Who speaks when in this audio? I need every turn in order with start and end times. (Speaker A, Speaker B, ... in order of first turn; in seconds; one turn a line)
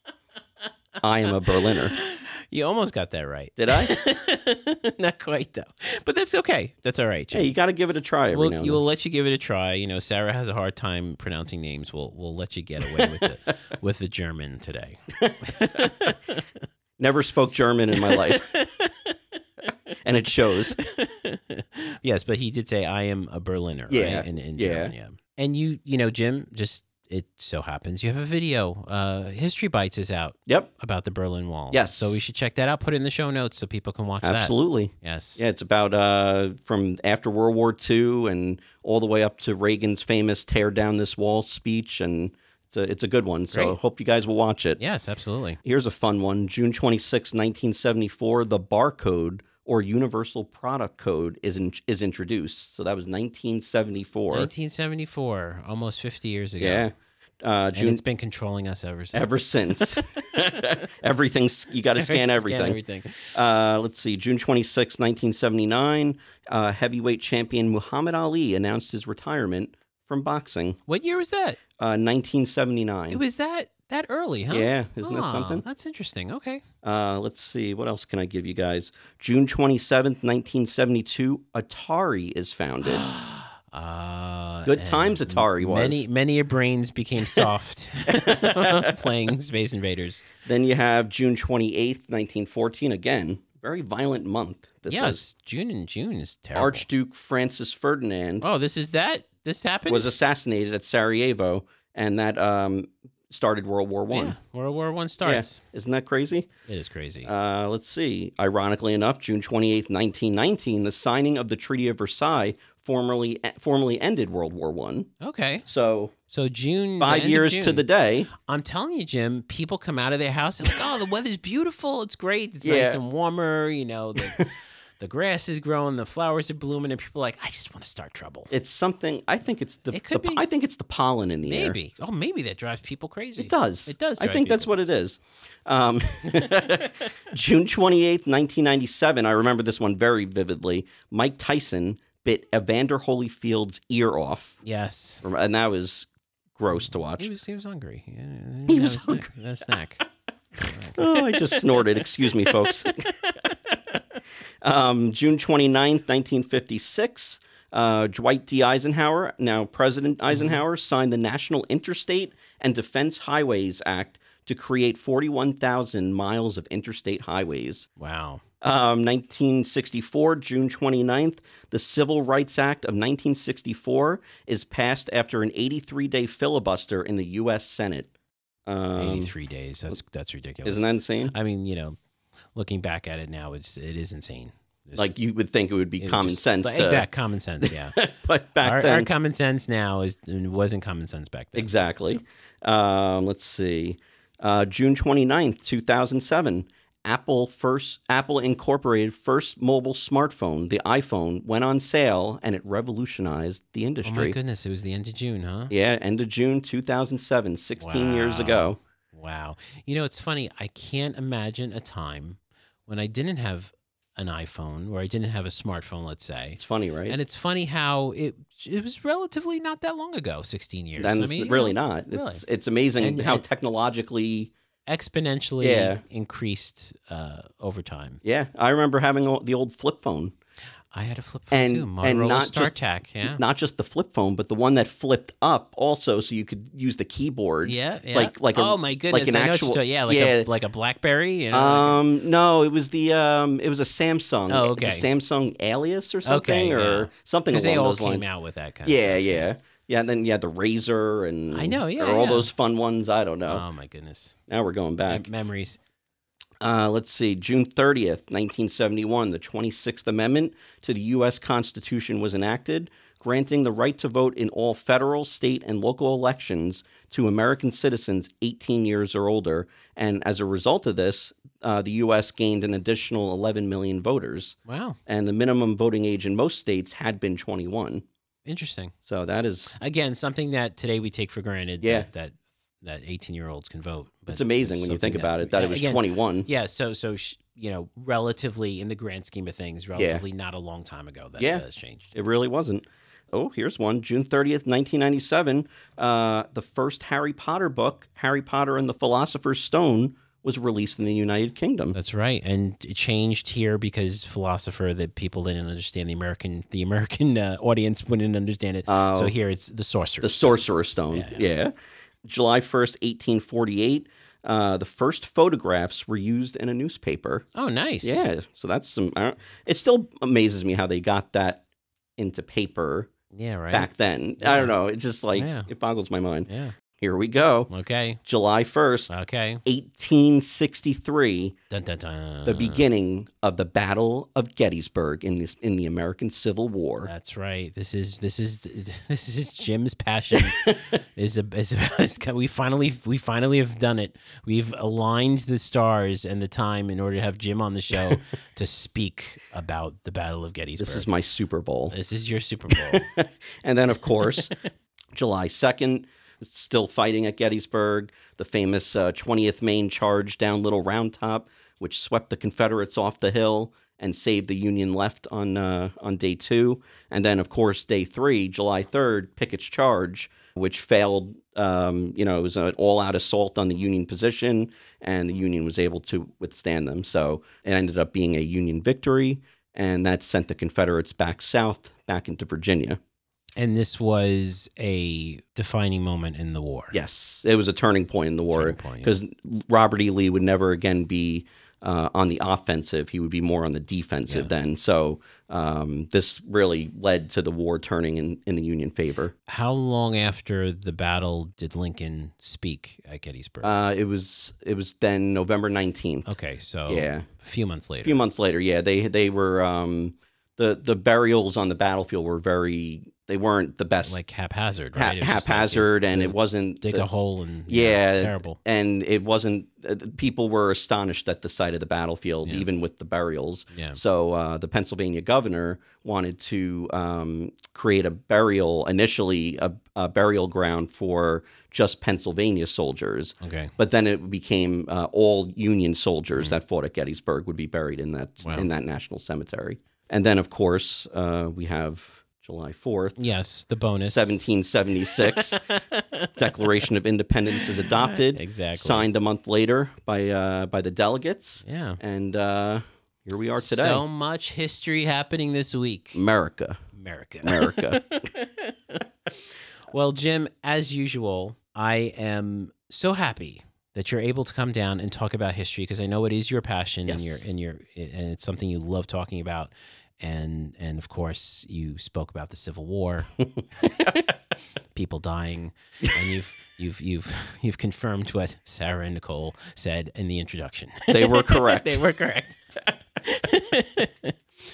Speaker A: 1.0-1.9
Speaker B: 1.7-7.5
Speaker A: 3.6-3.9
Speaker A: 7.3-8.8
Speaker B: 8.3-16.4
Speaker A: 12.9-13.5
Speaker A: 15.2-16.1
Speaker A: 17.0-18.5
Speaker B: 18.0-19.1
Speaker A: 20.0-20.8
Speaker B: 20.9-35.4
Speaker A: 23.9-24.9
Speaker A: 31.7-32.2
Speaker A: 34.2-44.8
Speaker B: 43.5-43.8
Speaker B: 44.8-45.6
Speaker A: 45.6-54.5
Speaker B: 54.3-56.9
Speaker A: 56.6-58.0
Speaker B: 57.7-60.3
Speaker A: 59.1-62.8
Speaker B: 62.0-63.3
Speaker A: 63.3-70.8
Speaker B: 70.9-71.6
Speaker A: 71.8-73.2
Speaker B: 73.1-76.6
Speaker A: 74.5-75.7
Speaker A: 76.8-83.1
Speaker B: 82.8-90.3
Speaker A: 84.7-86.0
Speaker A: 88.1-89.1
Speaker A: 90.4-95.2
Speaker B: 94.9-96.9
Speaker A: 96.5-98.5
Speaker B: 98.4-100.2
Speaker A: 99.9-104.4
Speaker B: 104.1-105.6
Speaker A: 105.2-106.5
Speaker B: 106.7-107.3
Speaker A: 107.2-115.1
Speaker B: 115.2-115.7
Speaker A: 115.7-116.1
Speaker B: 116.3-117.8
Speaker A: 117.0-118.3
Speaker B: 118.4-128.5
Speaker A: 122.6-123.0
Speaker A: 124.2-124.5
Speaker A: 128.5-131.8
Speaker B: 129.9-130.4
Speaker B: 131.4-134.9
Speaker A: 133.4-144.6
Speaker B: 144.6-145.2
Speaker A: 145.2-147.3
Speaker B: 146.7-150.1
Speaker A: 148.7-149.3
Speaker B: 150.6-153.5
Speaker A: 150.9-153.1
Speaker A: 154.6-167.9
Speaker B: 160.3-160.6
Speaker B: 168.0-168.4
Speaker A: 168.6-178.1
Speaker A: 178.7-179.3
Speaker B: 179.0-182.0
Speaker A: 180.7-181.3
Speaker B: 182.6-185.1
Speaker A: 185.0-187.1
Speaker B: 186.0-188.0
Speaker A: 187.6-189.1
Speaker B: 188.6-191.9
Speaker A: 191.6-204.4
Speaker B: 204.0-205.7
Speaker A: 205.7-208.8
Speaker B: 207.8-222.4
Speaker A: 216.6-217.2
Speaker A: 221.0-224.5
Speaker B: 223.0-223.4
Speaker B: 224.9-228.2
Speaker A: 225.6-226.0
Speaker A: 228.2-230.3
Speaker B: 230.9-233.4
Speaker A: 231.5-240.5
Speaker B: 237.6-242.0
Speaker A: 241.5-248.3
Speaker B: 244.5-245.1
Speaker B: 246.2-249.5
Speaker A: 248.8-253.7
Speaker B: 251.5-252.5
Speaker B: 253.5-254.3
Speaker A: 254.5-255.3
Speaker B: 255.1-255.8
Speaker A: 256.6-278.0
Speaker B: 274.7-275.0
Speaker B: 278.4-278.9
Speaker A: 279.1-279.8
Speaker B: 279.8-292.1
Speaker A: 281.8-282.1
Speaker A: 284.3-286.5
Speaker A: 289.9-290.2
Speaker A: 291.4-302.0
Speaker B: 301.9-311.5
Speaker A: 308.9-309.4
Speaker A: 310.2-311.7
Speaker A: 312.2-317.4
Speaker B: 317.6-318.3
Speaker A: 318.0-321.6
Speaker A: 322.2-323.1
Speaker B: 323.3-323.9
Speaker A: 323.7-327.7
Speaker B: 324.4-324.8
Speaker B: 325.3-325.7
Speaker B: 326.5-326.7
Speaker B: 327.7-328.2
Speaker A: 328.2-329.1
Speaker B: 329.1-329.6
Speaker A: 329.6-331.6
Speaker B: 331.7-332.9
Speaker A: 332.4-337.1
Speaker B: 337.1-351.1
Speaker A: 350.8-351.9
Speaker B: 351.9-353.0
Speaker A: 352.7-354.6
Speaker A: 355.1-383.0
Speaker B: 383.6-386.9
Speaker A: 386.9-399.3
Speaker B: 388.5-389.1
Speaker B: 399.5-403.7
Speaker A: 403.6-406.3
Speaker B: 406.3-408.2
Speaker A: 406.9-407.3
Speaker A: 408.0-414.2
Speaker B: 414.0-418.6
Speaker A: 415.0-417.1
Speaker A: 417.7-443.2
Speaker B: 423.7-424.0
Speaker B: 433.4-433.7
Speaker B: 438.4-438.7
Speaker B: 443.2-444.4
Speaker A: 444.0-445.6
Speaker B: 445.2-446.4
Speaker A: 446.4-454.1
Speaker B: 447.6-449.1
Speaker B: 451.6-452.0
Speaker B: 453.6-456.2
Speaker A: 456.1-456.8
Speaker B: 457.0-459.0
Speaker A: 457.4-458.0
Speaker B: 459.9-474.3
Speaker A: 467.1-467.4
Speaker B: 474.9-484.3
Speaker A: 481.1-482.0